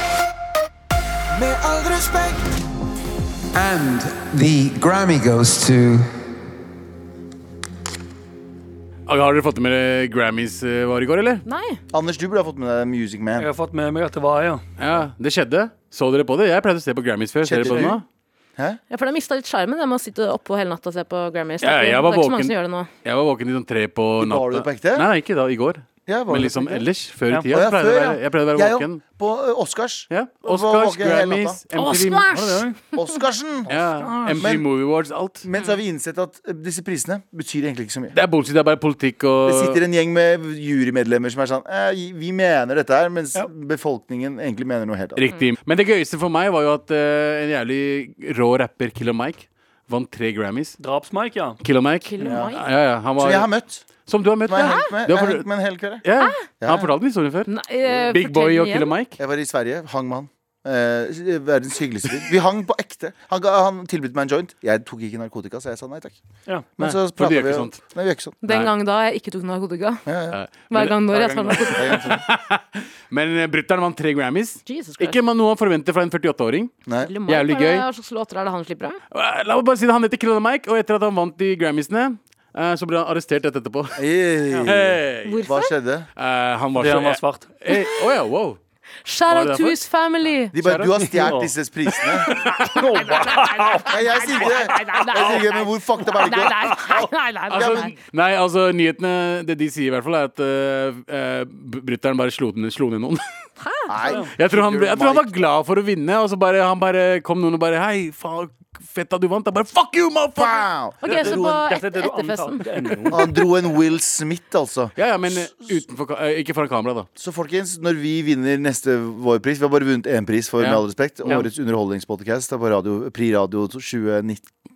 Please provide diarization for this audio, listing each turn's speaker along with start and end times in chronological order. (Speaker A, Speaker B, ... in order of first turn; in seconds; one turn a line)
Speaker A: 3.6-5.8
Speaker B: 9.1-11.4
Speaker C: 11.4-11.8
Speaker D: 11.9-13.5
Speaker E: 13.4-14.6
Speaker B: 14.8-18.0
Speaker D: 17.4-18.0
Speaker E: 17.7-17.9
Speaker C: 18.9-22.9
Speaker B: 21.6-29.0
Speaker D: 24.2-25.1
Speaker D: 26.1-26.9
Speaker D: 27.5-31.6
Speaker B: 30.1-32.6
Speaker C: 31.7-33.1
Speaker E: 32.3-32.8
Speaker D: 32.9-34.7
Speaker B: 33.7-35.4
Speaker E: 33.8-34.4
Speaker D: 35.4-38.1
Speaker B: 38.1-39.8
Speaker D: 39.4-45.2
Speaker B: 45.1-50.8
Speaker E: 50.8-51.6
Speaker B: 51.6-53.5
Speaker C: 52.0-52.6
Speaker D: 52.2-52.5
Speaker D: 53.2-53.9
Speaker B: 54.0-55.4
Speaker D: 54.4-56.0
Speaker C: 54.6-54.9
Speaker B: 56.0-57.5
Speaker D: 56.6-56.9
Speaker C: 57.5-58.9
Speaker B: 58.1-59.1
Speaker D: 59.2-66.2
Speaker D: 66.8-68.4
Speaker B: 66.8-67.8
Speaker C: 68.4-70.0
Speaker B: 68.4-68.7
Speaker D: 70.0-70.4
Speaker B: 70.3-76.7
Speaker C: 70.7-72.0
Speaker D: 71.7-72.2
Speaker C: 74.7-75.2
Speaker C: 77.0-79.0
Speaker B: 77.3-77.8
Speaker B: 79.1-84.0
Speaker D: 84.0-86.1
Speaker B: 84.6-85.5
Speaker C: 85.2-85.7
Speaker B: 86.2-88.6
Speaker E: 86.8-87.5
Speaker C: 89.0-90.5
Speaker B: 89.3-89.8
Speaker D: 90.5-92.4
Speaker E: 90.6-95.4
Speaker C: 92.6-97.9
Speaker D: 93.8-97.9
Speaker B: 97.5-103.2
Speaker C: 103.6-103.9
Speaker D: 103.9-105.5
Speaker B: 104.3-110.6
Speaker D: 110.3-111.7
Speaker C: 111.0-112.6
Speaker E: 111.0-113.3
Speaker D: 113.1-115.8
Speaker B: 115.0-117.1
Speaker D: 117.2-124.5
Speaker B: 120.6-121.5